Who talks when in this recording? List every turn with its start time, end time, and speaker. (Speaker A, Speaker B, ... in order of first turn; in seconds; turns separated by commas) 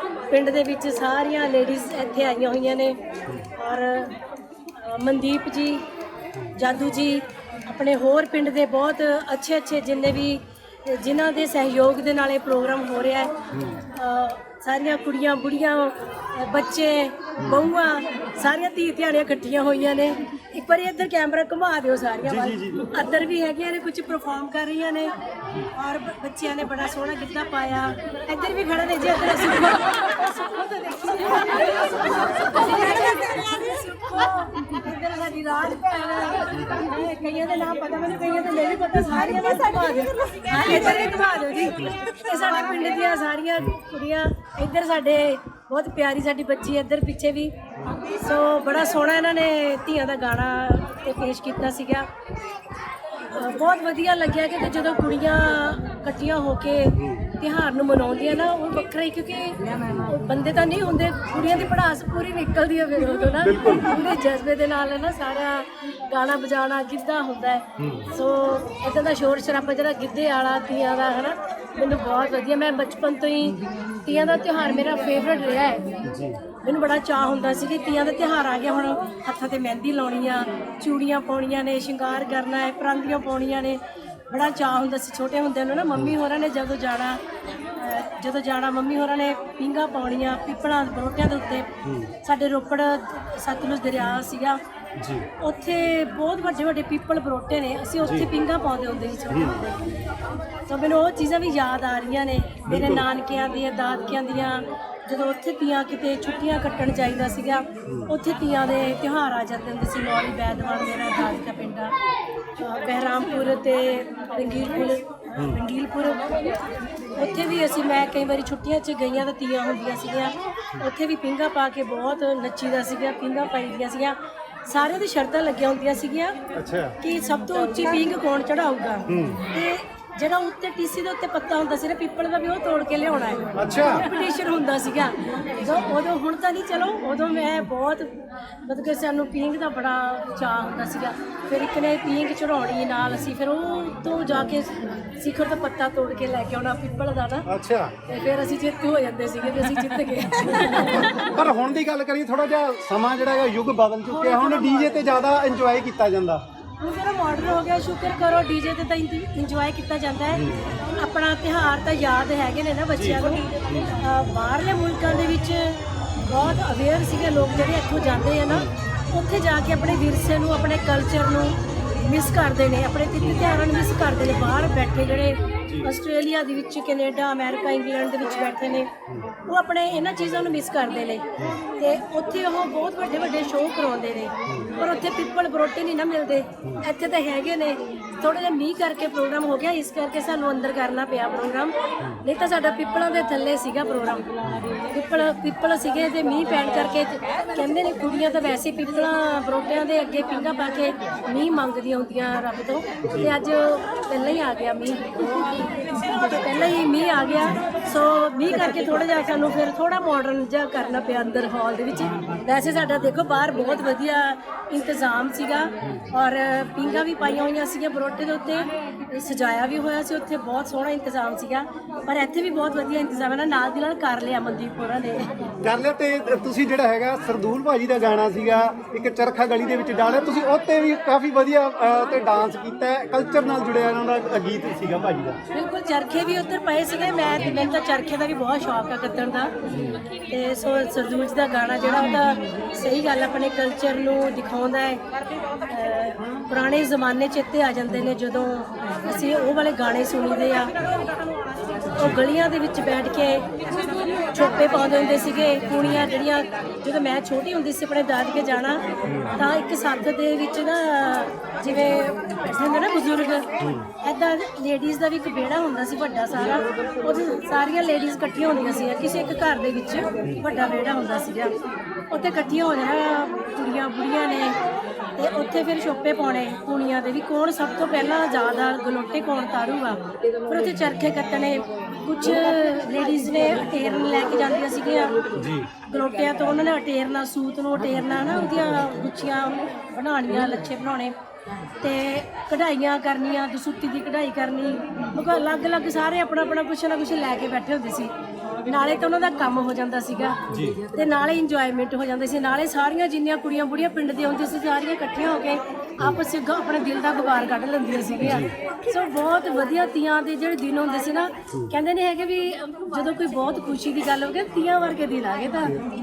Speaker A: 0.3-3.0, Speaker A: 3.5-4.2, Speaker A: 4.7-5.8, Speaker A: 6.5-25.1, Speaker B: 13.5-13.8, Speaker B: 17.4-17.7, Speaker B: 22.2-22.9, Speaker A: 25.6-52.1, Speaker B: 36.5-36.8, Speaker A: 53.2-76.0, Speaker B: 57.0-57.2, Speaker B: 59.9-60.1, Speaker B: 61.4-61.7, Speaker B: 63.4-63.9, Speaker B: 67.8-68.1, Speaker B: 76.0-76.4, Speaker A: 76.6-87.2, Speaker A: 87.7-94.6, Speaker B: 91.8-92.1, Speaker B: 95.0-95.3, Speaker A: 95.4-99.7, Speaker B: 98.0-98.3, Speaker B: 99.3-100.0, Speaker A: 100.7-111.9, Speaker B: 102.7-103.1, Speaker B: 107.8-108.1, Speaker A: 112.6-116.3, Speaker A: 117.1-126.4, Speaker B: 126.5-127.0, Speaker A: 127.0-147.4, Speaker B: 129.1-129.5, Speaker B: 133.5-134.1, Speaker B: 147.5-147.9, Speaker A: 148.1-151.3, Speaker B: 150.9-156.4, Speaker A: 154.1-155.0, Speaker A: 156.8-178.9, Speaker B: 160.3-160.7, Speaker B: 162.9-164.0, Speaker B: 173.2-173.4, Speaker B: 175.7-175.9, Speaker A: 179.4-181.2, Speaker A: 181.8-194.3, Speaker B: 184.4-184.7, Speaker B: 194.4-194.7, Speaker A: 194.8-225.3, Speaker B: 203.0-203.3, Speaker B: 225.6-235.4, Speaker A: 235.5-239.5, Speaker B: 239.7-240.0, Speaker A: 240.3-251.0, Speaker A: 251.9-271.6, Speaker B: 251.9-252.2, Speaker B: 259.1-259.4, Speaker B: 263.6-263.9, Speaker A: 272.1-274.6, Speaker A: 275.2-291.1, Speaker B: 285.3-285.7, Speaker A: 291.8-315.8, Speaker B: 300.5-300.8, Speaker B: 308.2-308.5